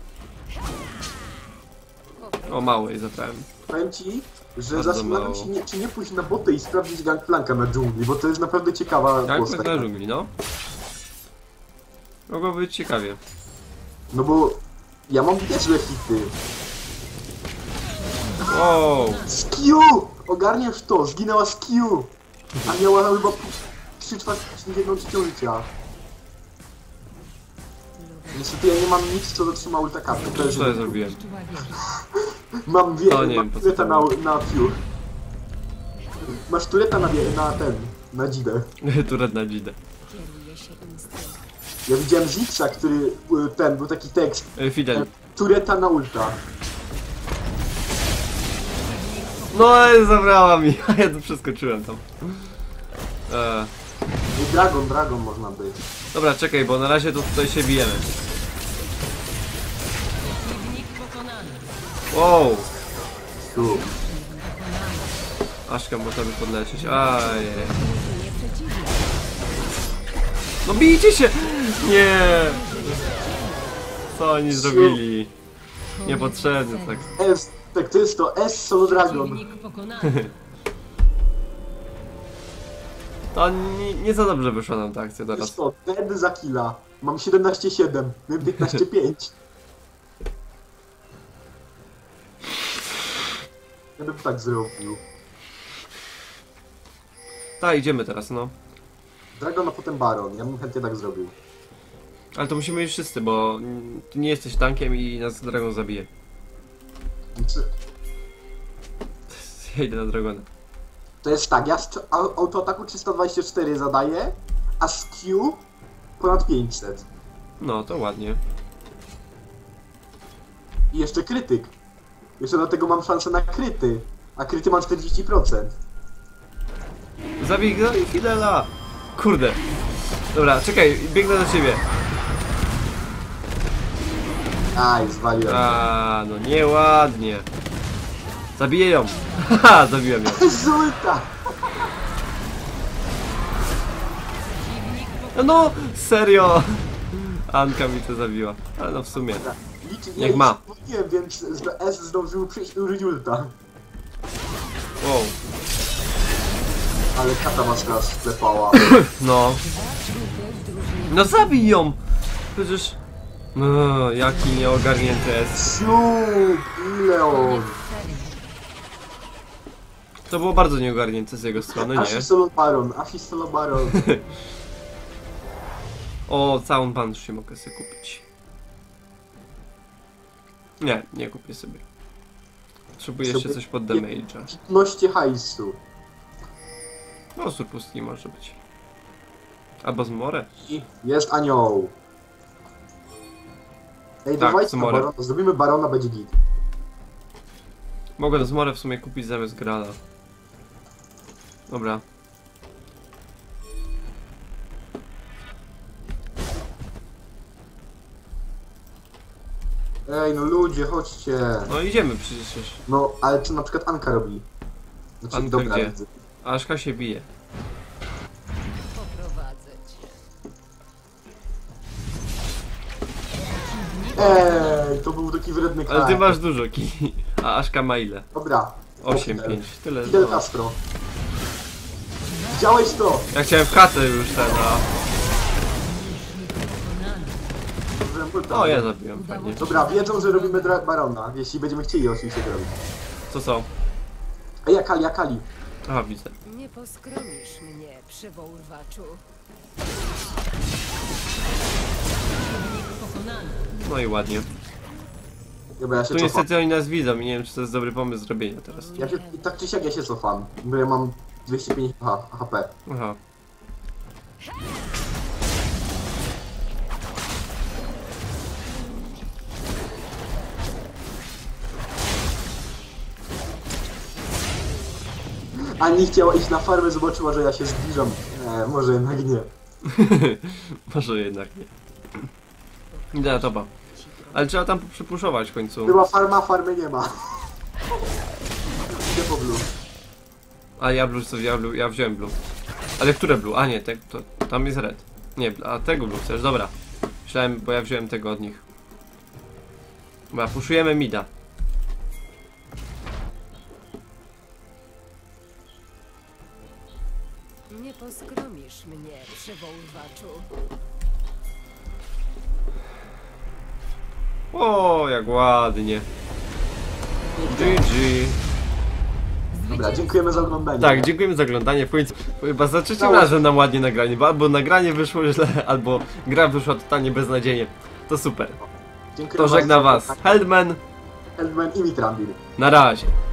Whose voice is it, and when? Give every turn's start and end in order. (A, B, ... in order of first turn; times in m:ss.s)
0:02.2-0:03.0 A
0:02.5-0:03.4 B
0:03.7-0:09.9 C
0:04.7-0:05.5 B
0:09.3-0:10.3 B
0:12.3-0:13.2 B
0:14.1-0:16.4 C
0:17.9-0:19.5 A
0:18.4-0:19.3 B
0:19.2-0:22.1 C
0:22.6-0:25.7 C
0:28.0-0:28.6 A
0:28.3-0:31.0 C
0:30.1-0:31.8 A
0:30.3-0:31.2 B
0:31.7-0:34.8 C
0:33.1-0:34.1 B
0:36.2-0:38.7 C
0:38.8-0:39.8 B
0:40.1-0:41.4 A
0:41.9-0:46.4 C
0:44.6-0:45.1 B
0:48.6-0:50.6 A
0:49.5-0:52.5 B
0:53.3-0:53.7 B
0:54.3-0:55.8 C
0:56.1-0:58.1 B
1:00.2-1:01.8 A
1:02.1-1:02.7 B
1:03.4-1:03.9 C
1:03.5-1:05.3 A
1:05.7-1:07.8 B
1:06.8-1:09.6 A
1:10.6-1:12.8 B
1:11.9-1:14.1 A
1:14.1-1:15.3 B
1:14.5-1:15.0 C
1:16.0-1:17.2 A
1:16.0-1:17.1 B
1:17.2-1:19.4 C
1:18.8-1:20.3 A
1:23.3-1:25.6 B
1:25.3-1:29.3 C
1:34.0-1:35.0 C
1:37.6-1:38.5 B
1:39.4-1:41.3 C
1:42.3-1:46.1 B
1:47.3-1:47.7 C
1:49.3-1:50.5 B
1:51.2-1:55.6 C
1:56.2-1:57.0 C
1:57.6-1:58.4 B
2:00.9-2:01.7 C
2:02.4-2:05.8 C
2:07.4-2:09.7 B
2:10.3-2:11.8 B
2:14.7-2:15.8 C
2:15.4-2:17.4 B
2:18.6-2:20.6 B
2:20.3-2:21.9 C
2:24.4-2:25.8 A
2:25.3-2:29.5 B
2:29.3-2:33.5 C
2:30.2-2:30.6 B
2:35.0-2:35.4 B
2:37.1-2:38.9 C
2:37.2-2:37.8 A
2:38.7-2:39.6 B
2:39.6-2:41.7 A
2:41.1-2:42.0 B
2:42.5-2:43.0 B
2:43.5-2:45.7 B
2:45.5-2:47.8 C
2:47.3-2:48.6 A
2:50.3-2:52.3 B
2:51.6-2:54.1 C
2:53.9-2:54.2 B
2:56.3-2:58.2 B
3:00.8-3:01.8 B
3:03.0-3:04.5 B
3:03.2-3:05.8 C
3:07.4-3:08.6 B
3:09.8-3:10.5 B
3:10.6-3:11.9 C
3:14.2-3:16.3 C
3:14.4-3:15.1 B
3:18.2-3:20.0 B
3:21.7-3:22.0 B
3:30.1-3:31.7 C
3:31.7-3:32.8 B
3:32.9-3:34.4 C
3:35.2-3:36.1 C
3:35.3-3:37.3 B
3:38.8-3:40.2 A
3:43.4-3:45.0 A
3:44.2-3:46.4 C
3:45.9-3:48.3 B
3:48.3-3:50.8 C
3:49.0-3:50.4 B
3:52.2-3:52.9 A
3:52.5-3:53.3 C
3:53.3-3:54.8 B
3:55.6-3:57.6 A
3:58.0-3:58.9 C
3:58.5-3:59.6 B
3:59.1-4:00.8 A
3:59.6-4:02.8 C
4:03.3-4:03.7 B
4:04.6-4:05.5 C
4:05.8-4:06.4 B
4:06.4-4:09.2 A
4:12.2-4:13.7 A
4:13.7-4:14.5 B
4:15.8-4:16.5 C
4:16.1-4:19.1 B
4:18.7-4:19.5 A
4:19.0-4:22.7 C
4:22.9-4:23.2 B
4:35.8-4:39.5 C
4:39.8-4:42.3 B
4:42.9-4:44.5 A
4:43.1-4:43.7 B
4:44.3-4:46.0 B
4:45.8-4:47.5 C
4:48.9-4:49.7 C
4:50.8-4:52.3 B
4:53.0-4:56.7 B
4:57.2-4:58.6 B
5:00.3-5:01.3 B
5:07.7-5:10.5 A
5:14.5-5:16.0 B
5:17.3-5:17.8 C
5:17.4-5:18.4 B
5:19.5-5:20.6 A
5:19.7-5:21.1 C
5:20.8-5:28.6 B
5:23.0-5:23.4 C
5:29.1-5:30.4 C
5:29.4-5:30.8 B
5:31.4-5:32.4 C
5:32.6-5:33.1 B